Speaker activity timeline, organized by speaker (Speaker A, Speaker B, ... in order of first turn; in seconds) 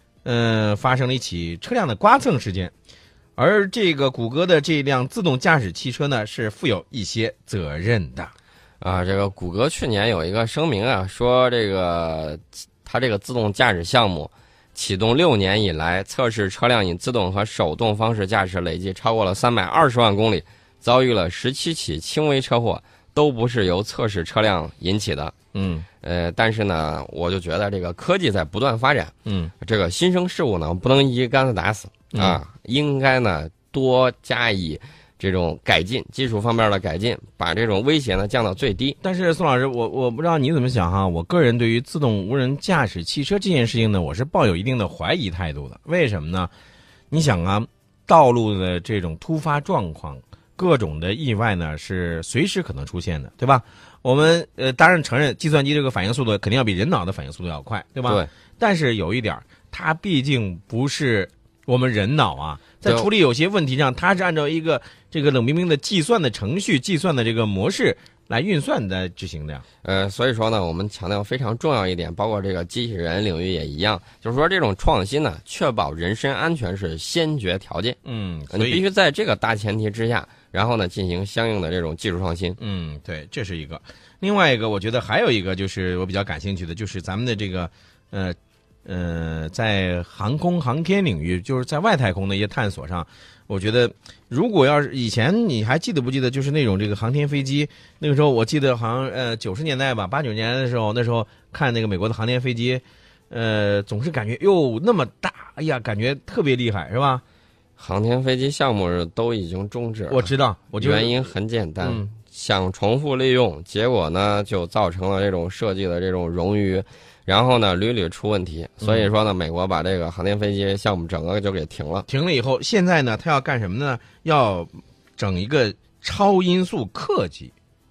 Speaker A: 0.2-2.7, 3.4-8.3, 25.5-25.9, 29.2-29.5, 32.1-32.4, 39.0-46.5, 47.1-69.6, 78.0-78.8, 82.6-107.2, 110.1-111.3, 111.8-112.1, 118.8-119.1, 122.1-127.5
Speaker B: 8.8-25.3, 26.0-39.0, 69.8-78.0, 78.5-82.6, 107.8-122.0